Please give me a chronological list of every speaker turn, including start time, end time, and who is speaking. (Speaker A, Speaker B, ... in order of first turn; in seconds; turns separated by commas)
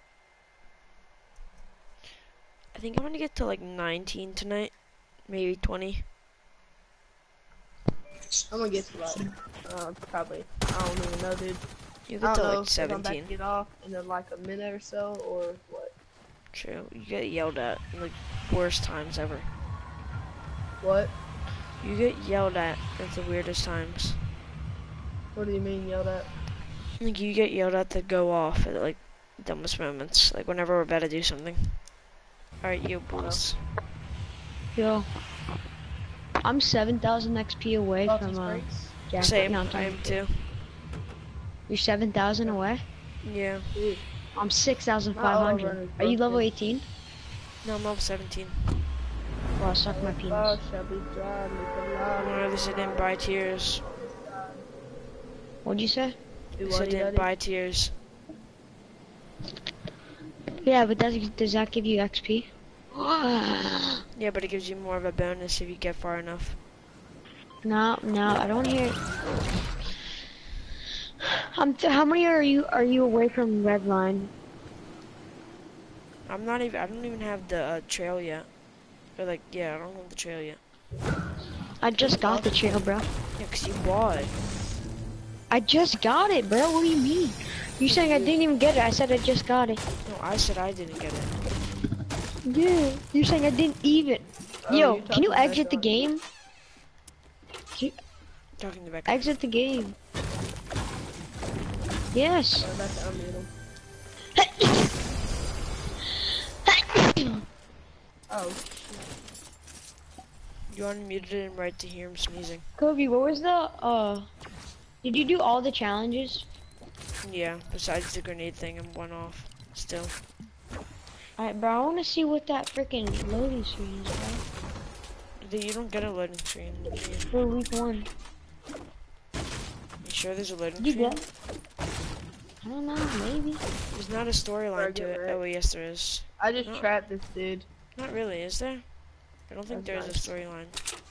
Speaker A: 2.7-6.1, Speaker B: 8.5-11.6, Speaker A: 12.1-13.3, Speaker B: 12.2-15.9, Speaker A: 16.5-19.5, Speaker B: 20.8-21.1, Speaker A: 21.8-24.2, Speaker B: 25.3-26.3, Speaker A: 27.0-31.9, Speaker A: 32.6-33.6, Speaker C: 34.7-35.1, Speaker C: 36.4-40.2, Speaker B: 38.0-39.0, Speaker A: 39.2-40.4, Speaker C: 41.7-42.8, Speaker A: 43.2-43.7, Speaker B: 43.7-44.0, Speaker C: 44.4-46.9, Speaker B: 45.1-46.5, Speaker A: 47.6-48.8, Speaker C: 49.6-50.6, Speaker B: 49.9-53.1, Speaker A: 52.2-53.8, Speaker B: 53.9-54.6, Speaker C: 55.6-56.2, Speaker B: 56.6-57.3, Speaker A: 56.6-57.9, Speaker C: 60.6-64.0, Speaker A: 64.1-66.6, Speaker C: 67.6-69.0, Speaker C: 71.5-74.3, Speaker A: 76.2-78.5, Speaker A: 79.2-80.6, Speaker C: 81.8-83.1, Speaker A: 81.8-82.8, Speaker A: 83.3-84.3, Speaker C: 85.5-89.8, Speaker B: 87.9-88.3, Speaker A: 90.0-91.3, Speaker C: 92.4-96.2, Speaker B: 94.6-95.9, Speaker A: 98.6-99.2, Speaker C: 99.1-100.0, Speaker C: 102.1-102.7, Speaker B: 102.6-103.5, Speaker C: 104.3-104.9, Speaker C: 106.7-107.4, Speaker B: 108.3-109.0, Speaker A: 110.7-112.7, Speaker C: 112.8-114.3, Speaker C: 115.0-116.5, Speaker A: 117.2-120.2, Speaker C: 121.4-124.4, Speaker A: 125.4-127.3, Speaker C: 127.3-128.1, Speaker A: 130.0-131.2, Speaker C: 130.8-131.2, Speaker C: 132.6-133.6, Speaker A: 133.9-136.9, Speaker B: 134.7-135.4, Speaker B: 136.4-137.7, Speaker A: 137.9-138.8, Speaker A: 139.5-140.8, Speaker B: 139.7-140.3